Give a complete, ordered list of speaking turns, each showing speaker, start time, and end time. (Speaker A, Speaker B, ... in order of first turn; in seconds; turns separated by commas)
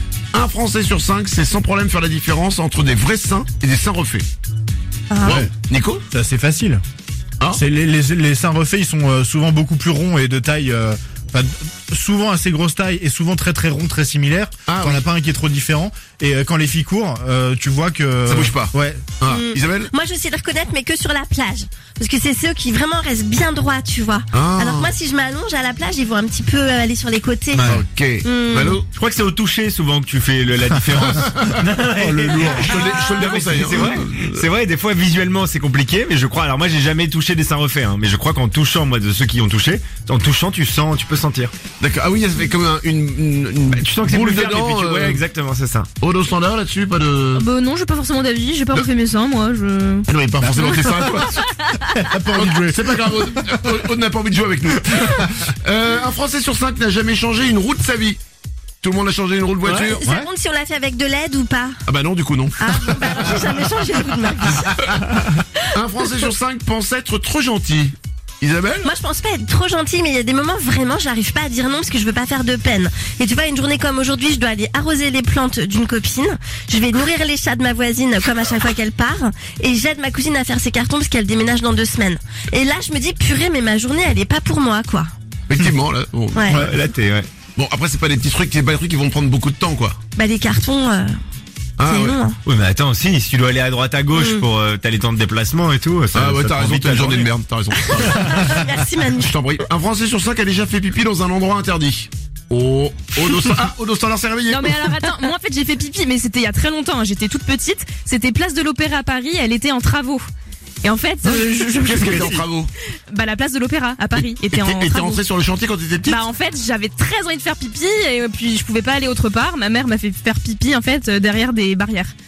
Speaker A: 0.3-4.3, Speaker B: 5.1-5.5, Speaker A: 5.2-6.0, Speaker C: 6.1-6.8, Speaker C: 7.5-19.0, Speaker A: 14.7-15.1, Speaker A: 18.2-19.9, Speaker B: 19.3-28.8, Speaker A: 24.3-24.9, Speaker C: 27.5-27.8, Speaker A: 27.7-28.9, Speaker D: 28.9-41.5, Speaker A: 31.1-31.6, Speaker C: 32.0-32.3, Speaker A: 32.3-34.5, Speaker A: 41.8-45.2, Speaker D: 43.7-45.9, Speaker A: 46.0-47.5, Speaker E: 47.3-50.1, Speaker A: 50.1-51.4, Speaker E: 50.7-51.7, Speaker C: 51.9-52.8, Speaker A: 52.3-58.2, Speaker A: 58.8-60.0, Speaker B: 59.7-61.8, Speaker A: 61.9-63.4, Speaker B: 62.6-64.8, Speaker A: 65.7-68.9, Speaker B: 68.8-85.1, Speaker A: 85.5-86.7, Speaker B: 86.3-86.7, Speaker D: 86.5-87.3, Speaker A: 87.5-90.0, Speaker B: 90.1-91.1, Speaker A: 91.8-92.2, Speaker B: 91.8-92.4, Speaker D: 92.4-97.3, Speaker B: 94.1-94.5, Speaker A: 96.1-98.3, Speaker B: 97.7-99.3, Speaker A: 99.2-105.0, Speaker E: 104.5-110.2, Speaker E: 110.8-112.5, Speaker A: 111.8-112.7, Speaker E: 113.1-115.2, Speaker A: 114.2-116.2, Speaker E: 116.0-122.1